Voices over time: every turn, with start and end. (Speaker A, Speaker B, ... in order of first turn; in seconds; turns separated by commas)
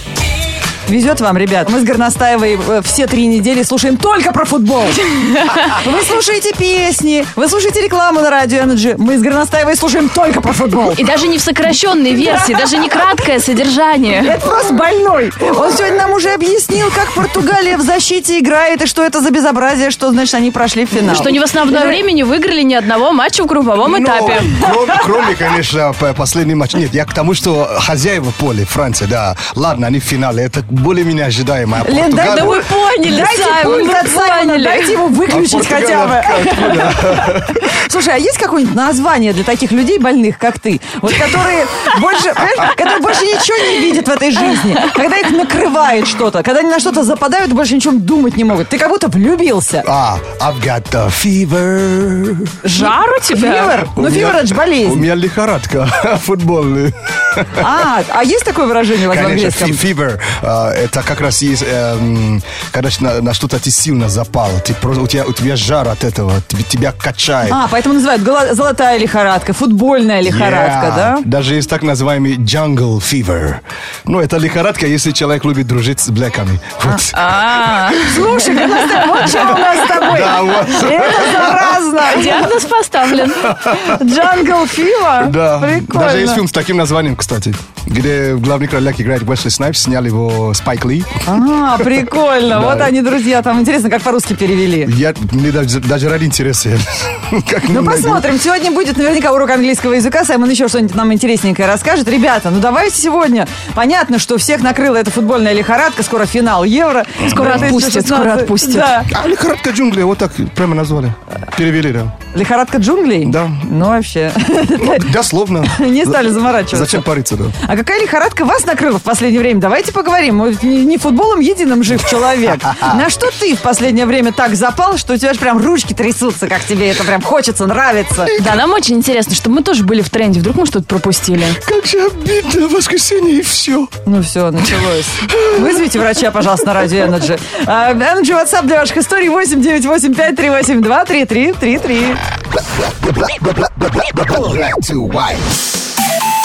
Speaker A: 0.8-11.0, Speaker B: 5.5-5.7, Speaker B: 10.9-14.4, Speaker A: 12.1-13.1, Speaker A: 14.1-22.0, Speaker B: 20.9-24.6, Speaker C: 23.8-32.6, Speaker A: 24.4-25.0, Speaker A: 31.8-49.9, Speaker B: 32.2-35.1, Speaker C: 35.3-37.7, Speaker C: 49.8-52.6, Speaker A: 52.6-55.0, Speaker B: 52.7-53.8, Speaker C: 53.9-57.6, Speaker A: 57.5-59.8, Speaker C: 59.1-67.6, Speaker A: 67.5-71.2, Speaker C: 70.2-78.4, Speaker A: 76.8-82.5, Speaker B: 78.1-79.2, Speaker C: 80.0-81.9, Speaker B: 82.1-83.6, Speaker C: 83.1-84.0, Speaker A: 83.6-86.4, Speaker C: 85.2-91.2, Speaker A: 91.2-94.9, Speaker C: 92.5-92.9, Speaker C: 94.8-98.3, Speaker A: 97.7-109.1, Speaker C: 107.2-107.7, Speaker B: 107.2-109.0, Speaker C: 109.1-112.1, Speaker A: 112.3-115.1, Speaker C: 113.2-113.7, Speaker C: 114.8-117.5, Speaker A: 115.6-117.1, Speaker A: 117.6-128.3, Speaker C: 122.7-123.0, Speaker C: 128.3-128.6, Speaker B: 128.3-131.6, Speaker C: 131.5-133.9, Speaker A: 134.0-142.2, Speaker C: 135.3-135.8, Speaker C: 144.0-145.4